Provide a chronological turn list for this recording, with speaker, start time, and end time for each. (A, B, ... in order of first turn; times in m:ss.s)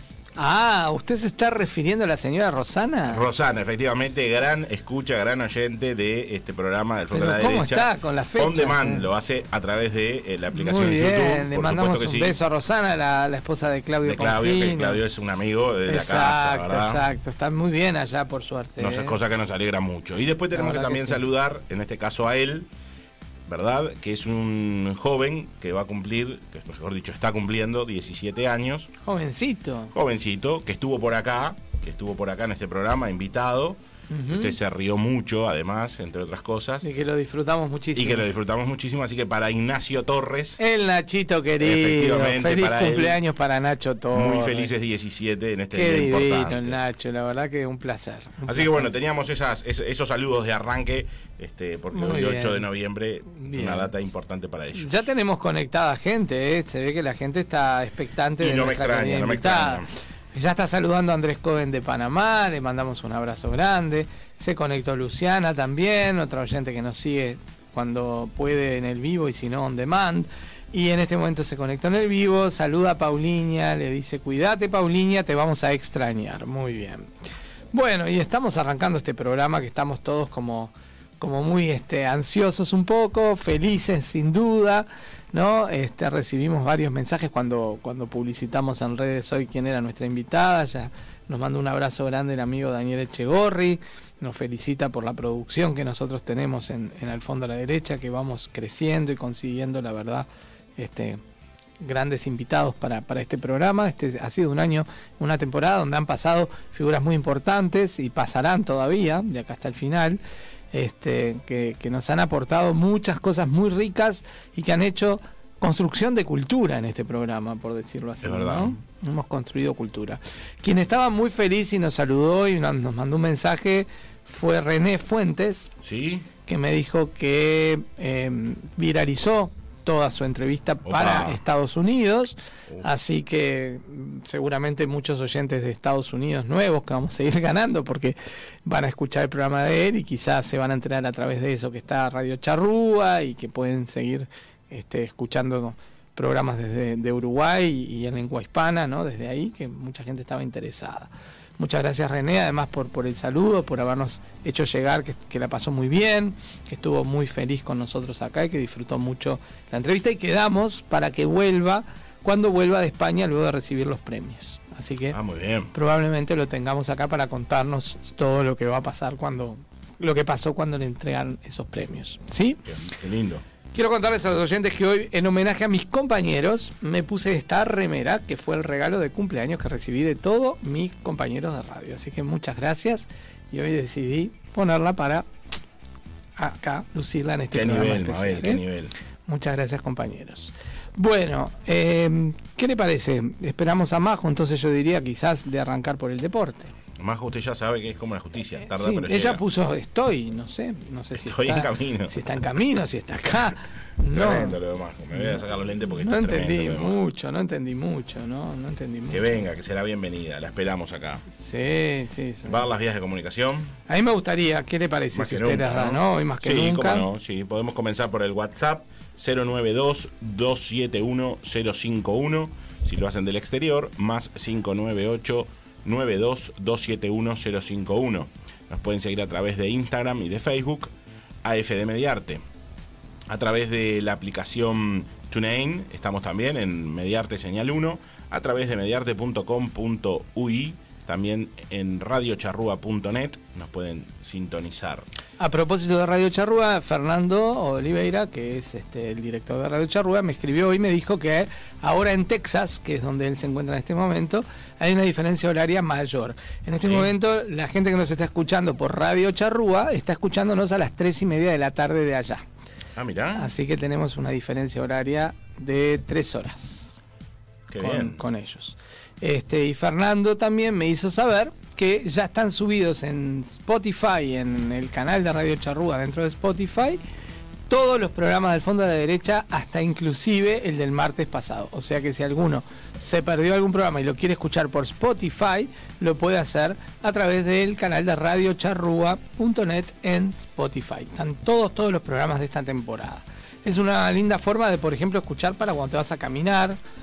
0:00.4-0:03.3 A
0:03.1-0:12.4 B
0:07.1-0:09.1 A
0:10.5-0:15.0 A
0:14.0-0:17.0 B
0:15.9-0:19.2 A
0:18.8-0:22.7 B
0:20.5-0:21.2 A
0:23.5-0:28.9 B
0:29.0-0:29.9 A
0:29.9-0:36.9 B
0:34.1-0:34.6 A
0:36.8-0:38.2 A
0:38.0-0:40.6 B
0:40.6-0:44.7 A
0:41.6-0:43.2 B
0:44.1-0:46.8 B
0:45.7-0:48.9 A
0:48.5-0:54.9 B
0:51.9-0:52.7 A
0:53.3-0:53.9 A
0:54.8-1:17.1 A
0:58.4-0:59.9 B
1:17.7-1:41.2 A
1:41.8-1:50.2 A
1:50.7-2:05.7 A
1:58.2-1:58.8 B
2:05.8-2:06.3 B
2:06.5-2:45.2 A
2:10.8-2:11.4 B
2:45.1-2:45.7 B
2:45.7-2:52.6 A
2:52.6-2:53.4 B
2:53.7-3:05.3 A
3:06.4-3:08.6 A
3:07.5-3:08.9 B
3:09.3-3:16.7 A
3:17.0-3:19.4 B
3:18.6-3:24.6 A
3:21.2-3:22.2 B
3:24.1-3:27.0 B
3:26.0-3:29.3 A
3:29.1-3:31.3 B
3:31.3-3:32.6 A
3:32.5-3:33.8 B
3:33.9-3:37.1 A
3:35.1-3:50.9 B
3:51.4-3:52.4 B
3:53.3-4:05.1 B
4:05.4-4:22.5 A
4:16.8-4:17.1 B
4:23.0-4:23.5 B
4:23.4-4:27.0 A
4:27.7-4:28.2 B
4:27.8-4:37.0 A
4:37.7-4:56.8 A